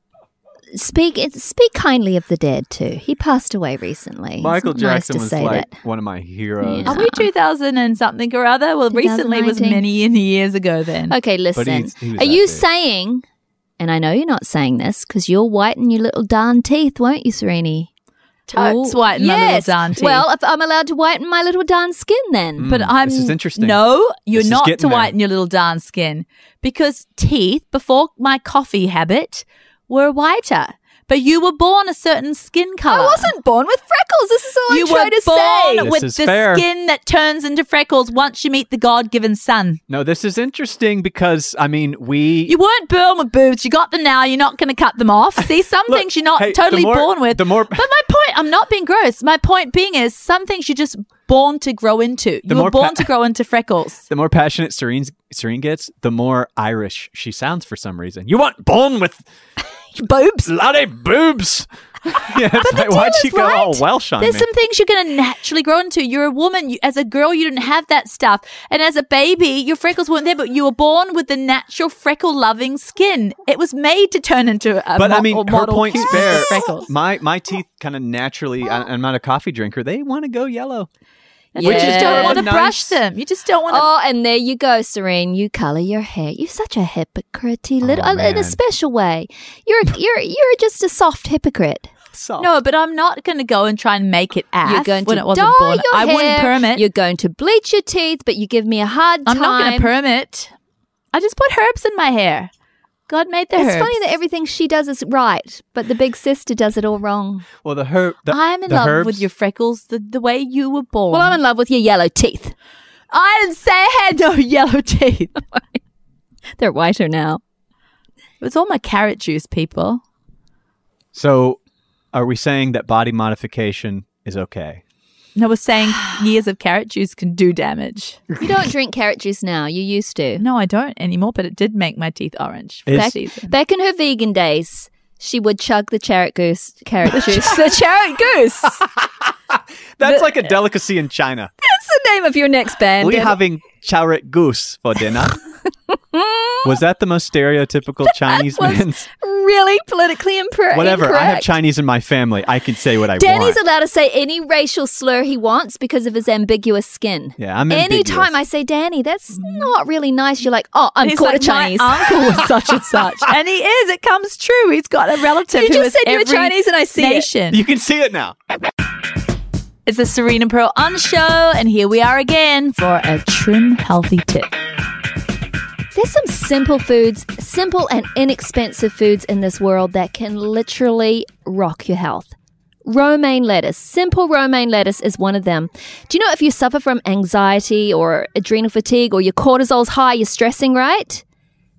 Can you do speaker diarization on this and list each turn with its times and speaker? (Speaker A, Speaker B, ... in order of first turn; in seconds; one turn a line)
Speaker A: 0.7-5.7
Speaker B: 4.4-7.1
Speaker A: 6.6-7.3
Speaker C: 6.8-11.2
Speaker A: 8.9-9.8
Speaker A: 11.1-13.2
Speaker B: 11.5-12.6
Speaker A: 13.8-17.9
Speaker C: 18.5-20.2
Speaker A: 18.5-22.7
Speaker B: 22.6-23.8
Speaker C: 22.6-33.3
Speaker B: 24.3-25.1
Speaker A: 32.9-35.9
Speaker C: 34.7-39.8
Speaker B: 35.8-36.6
Speaker B: 39.9-42.5
Speaker C: 42.5-54.1
Speaker B: 45.9-47.9
Speaker B: 52.5-53.1
Speaker B: 54.1-59.2
Speaker A: 59.9-60.5
Speaker B: 60.5-64.5
Speaker C: 62.6-76.9
Speaker B: 75.0-80.9
Speaker A: 76.0-76.7
Speaker A: 81.5-82.5
Speaker C: 81.5-83.8
Speaker B: 81.6-83.0
Speaker A: 83.7-91.9
Speaker B: 87.8-88.6
Speaker B: 92.1-92.5
Speaker C: 92.4-96.8
Speaker A: 94.6-99.9
Speaker C: 99.2-100.5
Speaker C: 101.1-102.5
Speaker C: 103.1-104.1
Speaker A: 103.5-107.5
Speaker B: 107.6-109.2
Speaker C: 108.3-111.4
Speaker A: 111.1-112.5
Speaker C: 113.1-115.4
Speaker A: 116.6-117.4
Speaker C: 118.4-120.0
Speaker B: 121.1-121.6
Speaker B: 122.1-124.8
Speaker C: 125.3-128.3
Speaker A: 128.4-130.4
Speaker C: 130.4-133.5
Speaker B: 132.9-133.1
Speaker A: 132.9-138.8
Speaker B: 138.8-141.5
Speaker A: 140.0-140.4
Speaker A: 141.6-143.4
Speaker B: 143.0-145.4
Speaker A: 145.9-146.7
Speaker B: 146.6-149.1
Speaker A: 148.1-151.5
Speaker B: 150.7-153.6
Speaker A: 153.1-162.4
Speaker B: 157.4-158.3
Speaker C: 159.3-159.7
Speaker C: 161.0-167.6
Speaker A: 165.5-167.3
Speaker B: 167.5-168.3
Speaker C: 169.8-174.5
Speaker A: 175.9-182.3
Speaker A: 182.8-191.2